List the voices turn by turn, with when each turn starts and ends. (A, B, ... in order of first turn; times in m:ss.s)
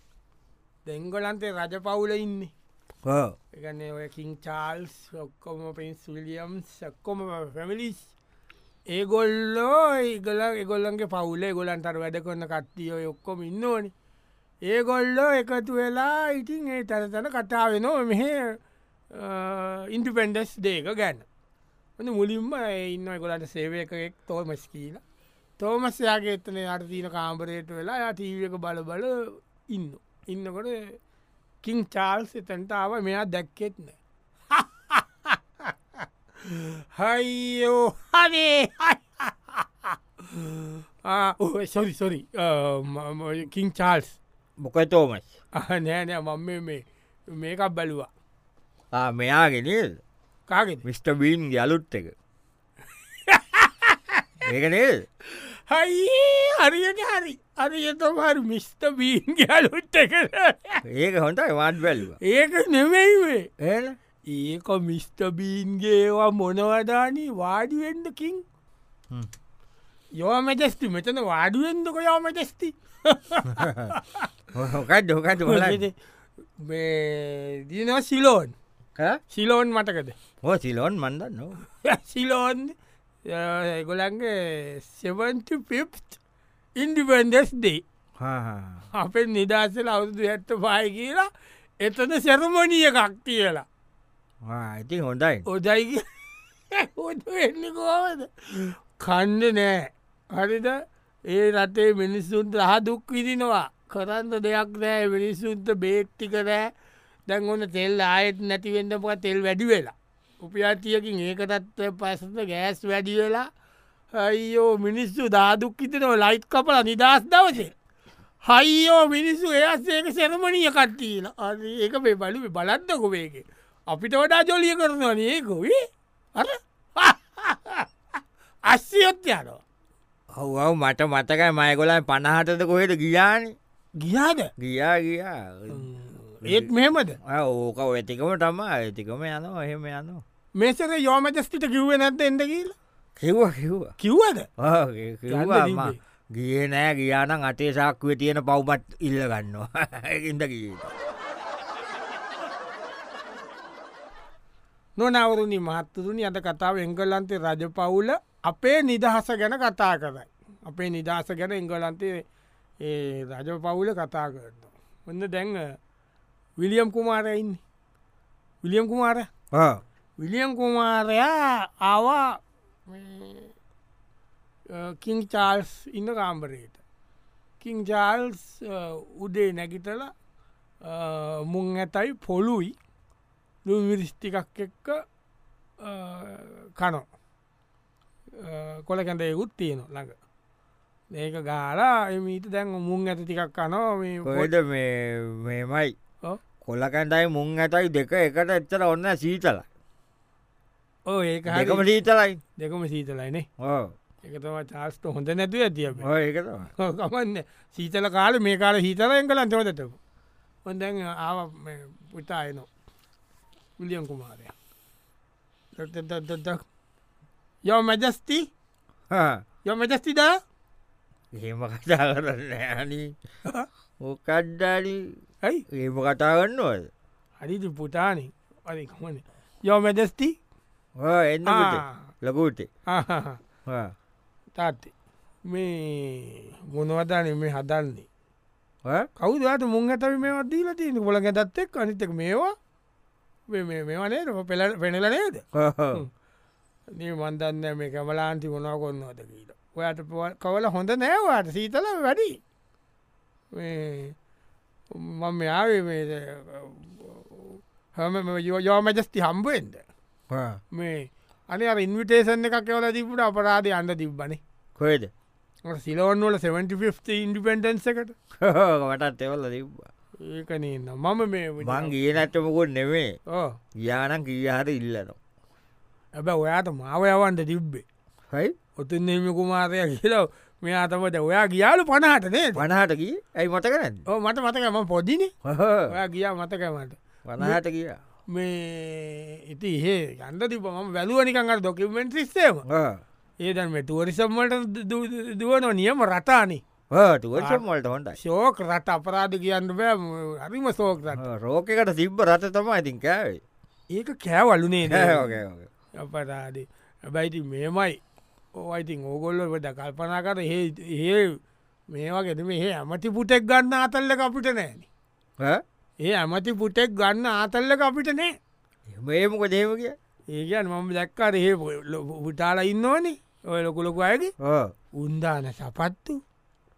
0:00.9-0:02.5 A
0:03.1-0:03.4 B
0:03.5-0:08.1 A
0:08.9-0:13.9 A
0:14.6-0:18.6 A
0:19.1-0:21.2 A
0:22.0-0:25.0 A
0:25.6-0:31.0 A
0:31.6-0:34.0 A
0:34.5-0:35.7 A
0:36.4-0:44.2 A
0:44.6-0:45.3 B
0:45.6-0:48.1 A
0:48.9-0:50.0 B
0:50.5-0:50.8 A
0:50.8-0:52.1 B
0:53.2-0:54.4 A
0:54.4-0:55.0 B
0:55.2-1:00.8 A
1:00.8-1:02.2 B
1:02.2-1:03.5 A
1:03.6-1:04.0 B
1:04.3-1:08.4 A
1:10.2-1:14.3 A
1:13.6-1:13.9 B
1:14.6-1:15.8 B
1:15.4-1:16.0 A
1:16.6-1:18.6 A
1:19.3-1:20.2 A
1:20.4-1:21.6 B
1:21.8-1:22.7 A
1:23.2-1:26.2 A
1:26.8-1:27.8 A
1:28.2-1:28.8 B
1:28.9-1:31.3 A
1:31.8-1:33.7 A
1:34.5-1:35.5 B
1:35.5-1:46.7 A
1:47.3-1:53.5 A
1:54.1-1:57.7 A
1:58.4-2:05.8 A
2:06.4-2:07.9 A
2:08.7-2:09.6 A
2:10.3-2:13.6 B
2:14.0-2:14.5 A
2:14.6-2:15.9 B
2:15.7-2:17.2 A
2:16.4-2:16.7 B
2:17.2-2:20.2 B
2:20.6-2:22.8 A
2:23.2-2:23.9 B
2:24.0-2:24.5 A
2:24.6-2:30.9 B
2:25.3-2:26.0 A
2:35.0-2:42.2 A
2:42.8-2:45.8 A
2:46.6-2:47.6 A
2:48.6-2:49.3 A
2:49.5-2:49.8 B
2:50.2-2:53.5 A
2:54.7-2:56.8 A
2:57.6-3:00.1 A
3:00.8-3:02.8 A
3:03.7-3:05.0 A
3:05.8-3:07.1 A
3:08.4-3:10.2 A
3:11.1-3:14.5 A
3:14.2-3:15.9 B
3:16.6-3:19.7 B
3:21.1-3:21.8 A
3:21.5-3:22.4 B
3:22.6-3:23.5 A
3:23.6-3:23.9 B
3:24.2-3:26.1 A
3:26.0-3:26.7 B
3:26.8-3:30.0 A
3:30.7-3:32.7 A
3:33.8-3:34.5 A
3:35.8-3:36.6 A
3:37.6-3:38.5 A
3:39.1-3:39.4 B
3:39.6-3:40.4 A
3:41.3-3:43.1 B
3:44.0-3:45.1 B
3:45.7-3:46.9 B
3:47.4-3:50.4 A
3:51.0-3:52.7 B
3:51.5-3:52.0 A
3:52.9-3:53.4 A
3:53.7-3:53.9 B
3:54.6-3:54.9 A
3:55.5-3:58.1 A
3:59.2-4:02.6 A
4:03.5-4:05.4 A
4:05.6-4:06.0 B
4:06.9-4:12.4 A
4:13.5-4:14.2 A
4:14.9-4:19.8 A
4:20.3-4:20.6 B
4:20.7-4:24.4 A
4:24.8-4:25.1 B
4:25.7-4:28.2 A
4:28.4-4:29.9 B
4:30.2-4:31.9 A
4:31.6-4:33.1 B
4:33.3-4:33.6 A
4:33.8-4:35.2 B
4:36.2-4:37.8 A
4:38.8-4:42.6 A
4:42.6-4:44.0 B
4:44.1-4:45.3 A
4:45.4-4:45.9 B
4:45.9-4:47.6 A
4:47.2-4:48.0 B
4:48.3-4:52.6 A
4:52.7-4:53.0 B
4:53.4-4:56.6 A
4:56.9-4:58.2 B
4:57.4-4:57.6 A
4:58.2-5:01.2 A
5:01.2-5:03.4 B
5:03.9-5:05.4 A
5:04.9-5:05.7 B
5:06.0-5:08.0 A
5:08.6-5:11.4 A
5:11.9-5:14.9 A
5:16.0-5:18.4 A
5:18.9-5:20.0 B
5:20.3-5:24.3 A
5:24.4-5:24.7 B
5:25.0-5:26.2 A